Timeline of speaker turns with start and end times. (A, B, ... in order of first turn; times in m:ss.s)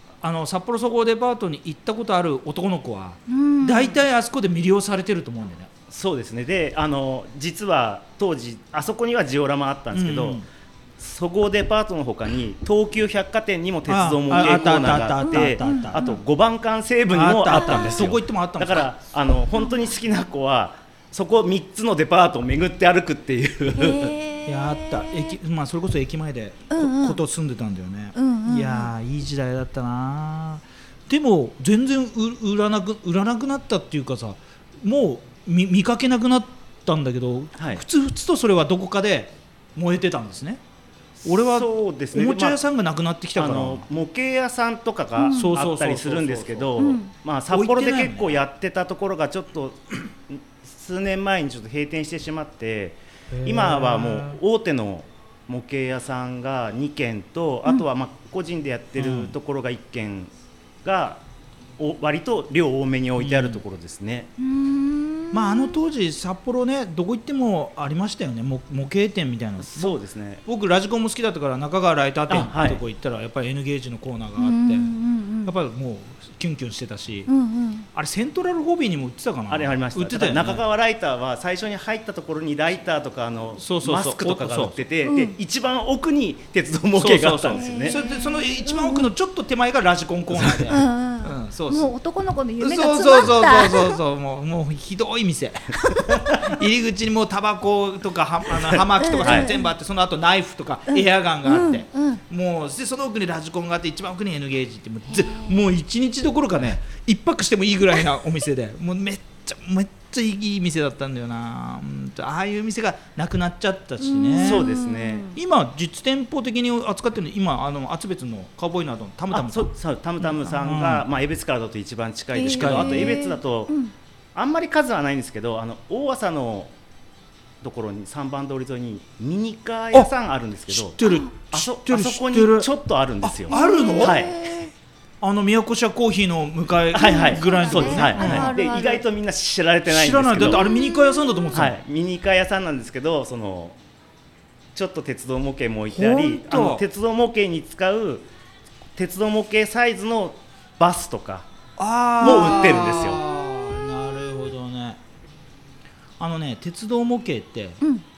0:00.2-0:05.7 A
0:03.3-0:04.0 B
0:05.9-0:10.4 C
0:09.9-0:10.4 A
0:11.0-0:24.1 C
0:13.9-0:16.1 A
0:15.2-0:16.2 B
0:17.1-0:18.9 A
0:17.5-0:18.0 B
0:23.8-0:25.3 B
0:24.4-0:40.6 A
0:26.7-0:27.2 B
0:28.1-0:28.9 B
0:37.6-0:37.8 C
0:41.2-0:42.6 C
0:41.2-0:43.8 A
0:43.3-1:00.3 C
0:45.2-0:45.5 B
0:45.3-0:46.8 A
0:46.8-0:47.1 B
0:47.5-0:48.4 A
0:53.3-0:54.4 A
0:59.0-0:59.3 A
1:00.8-1:01.2 C
1:01.8-1:04.3 C
1:03.2-1:03.6 A
1:04.4-1:05.8 B
1:05.3-1:14.9 A
1:09.6-1:10.4 C
1:12.3-1:12.8 C
1:14.4-1:15.5 B
1:15.4-1:17.3 A
1:17.3-1:17.8 B
1:17.9-1:20.6 A
1:19.5-1:28.0 C
1:23.6-1:24.9 A
1:25.0-1:25.3 B
1:27.0-1:31.9 A
1:27.5-1:29.1 B
1:30.3-1:30.7 C
1:30.7-1:34.0 B
1:32.6-1:54.7 A
1:35.8-1:36.5 B
1:39.0-1:39.7 B
1:39.2-1:39.5 C
1:40.9-1:42.2 B
1:45.1-1:45.6 B
1:54.0-1:55.4 B
1:54.4-1:55.3 C
1:55.3-2:01.1 A
1:59.3-2:03.8 C
2:02.3-2:03.9 B
2:02.4-2:03.2 A
2:04.3-2:06.7 C
2:07.6-2:14.4 C
2:10.7-2:12.7 A
2:11.0-2:11.3 B
2:13.2-2:18.6 A
2:13.5-2:14.6 B
2:16.9-2:20.7 C
2:16.9-2:19.0 B
2:19.8-2:21.8 A
2:20.5-2:21.6 B
2:21.5-2:23.8 C
2:24.7-2:28.3 C
2:25.9-2:26.8 A
2:29.0-2:31.5 C
2:31.8-2:35.0 A
2:32.2-2:33.2 C
2:36.2-2:37.8 A